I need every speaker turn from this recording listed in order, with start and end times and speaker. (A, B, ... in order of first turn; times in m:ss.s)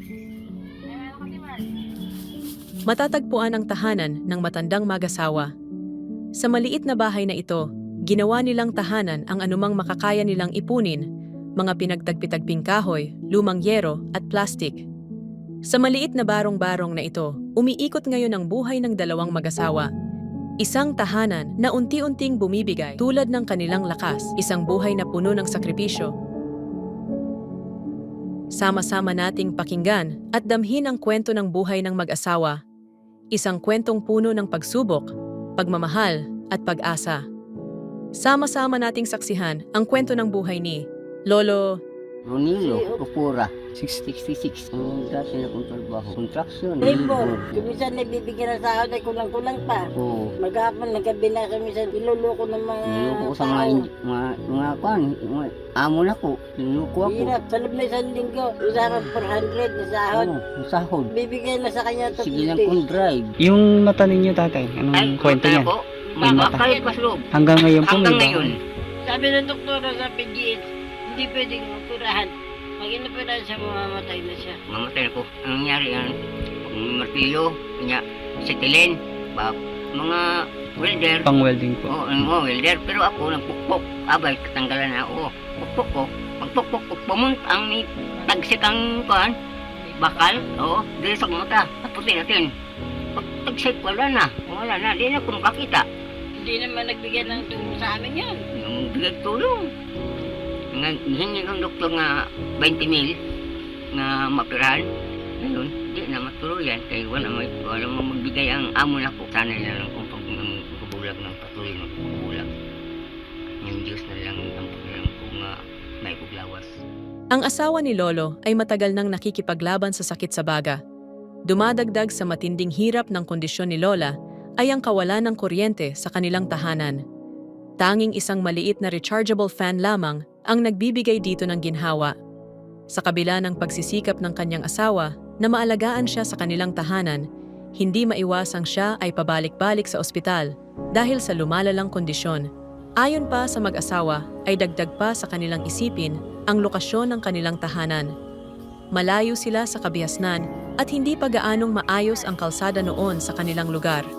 0:00.9-0:01.7 A
0:02.9-0:05.5 B
0:06.4-0:11.0 B
0:11.6-0:14.8 B
0:15.7-0:19.9 B
0:20.6-0:26.1 B
0:28.6-0:32.6 B
0:33.4-0:37.2 B
0:38.2-0:41.8 B
0:42.3-0:47.5 C
0:42.6-0:43.0 A
0:46.8-0:49.8 A
0:50.0-0:50.3 C
0:50.4-0:53.9 A
0:52.8-0:57.4 C
0:57.1-1:00.3 A
1:00.1-1:01.1 C
1:01.1-1:02.9 A
1:02.1-1:03.3 C
1:03.4-1:05.7 D
1:04.9-1:07.3 C
1:06.1-1:07.0 A
1:06.2-1:06.7 D
1:07.3-1:08.5 D
1:07.8-1:08.6 C
1:09.0-1:14.6 A
1:14.7-1:16.1 C
1:16.6-1:21.3 C
1:21.2-1:21.9 D
1:21.9-1:29.3 C
1:30.0-1:32.5 C
1:33.2-1:35.9 C
1:36.4-1:38.4 A
1:38.5-1:39.7 C
1:40.7-1:43.2 C
1:43.9-1:44.9 C
1:45.4-1:52.5 C
1:53.6-1:55.5 C
1:56.0-1:56.8 C
1:57.3-2:00.8 B
2:01.5-2:07.0 B
2:07.8-2:12.1 B
2:12.9-2:17.2 B
2:17.8-2:22.4 B
2:23.0-2:28.1 B
2:29.0-2:34.0 B